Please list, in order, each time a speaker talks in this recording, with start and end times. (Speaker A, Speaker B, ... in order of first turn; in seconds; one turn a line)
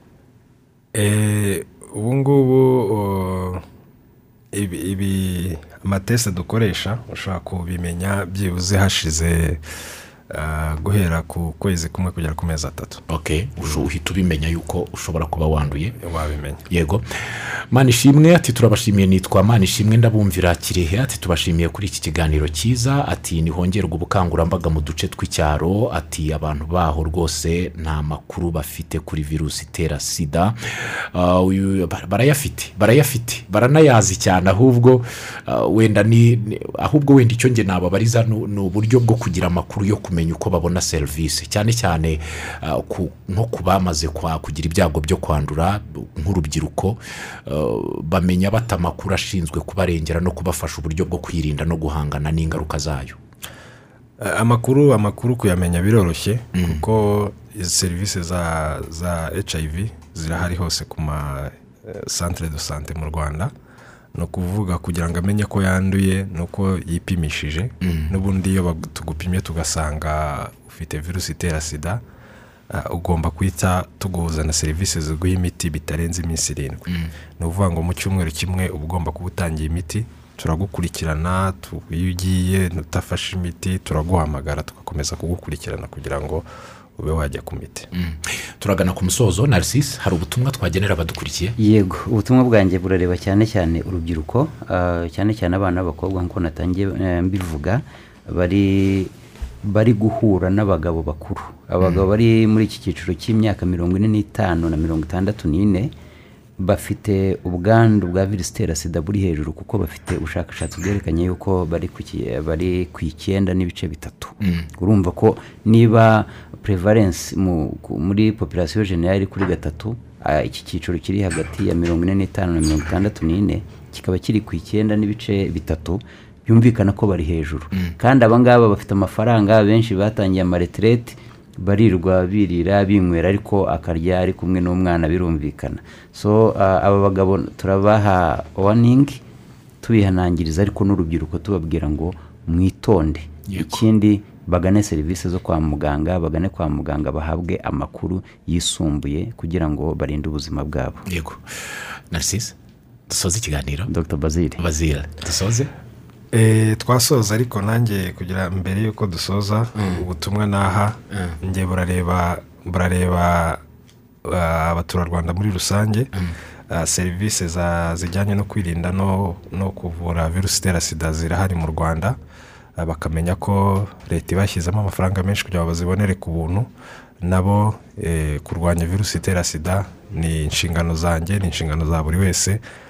Speaker A: 0.9-3.6
Speaker A: 4.5-9.6
Speaker A: 10.3-13.0
Speaker B: 13.1-15.9
Speaker A: 16.0-16.6
Speaker B: 16.7-53.2
Speaker A: 54.2-63.5
Speaker B: 56.5-56.8
Speaker A: 64.1-72.0
Speaker B: 67.8-68.1
Speaker A: 72.7-86.4
Speaker A: 87.0-87.9
Speaker B: 87.9-91.5
Speaker C: 91.6-99.1
Speaker C: 99.6-105.9
Speaker C: 106.6-139.2
Speaker B: 114.4-114.7
Speaker C: 139.8-151.1
Speaker B: 143.5-143.8
Speaker B: 151.1-151.4
Speaker B: 152.1-152.5
Speaker B: 153.1-153.9
Speaker C: 153.9-154.6
Speaker B: 154.6-155.7
Speaker A: 156.3-163.6
Speaker B: 159.8-160.0
Speaker A: 164.2-166.1
Speaker A: 166.7-172.2
Speaker A: 172.8-176.7
Speaker A: 177.2-182.6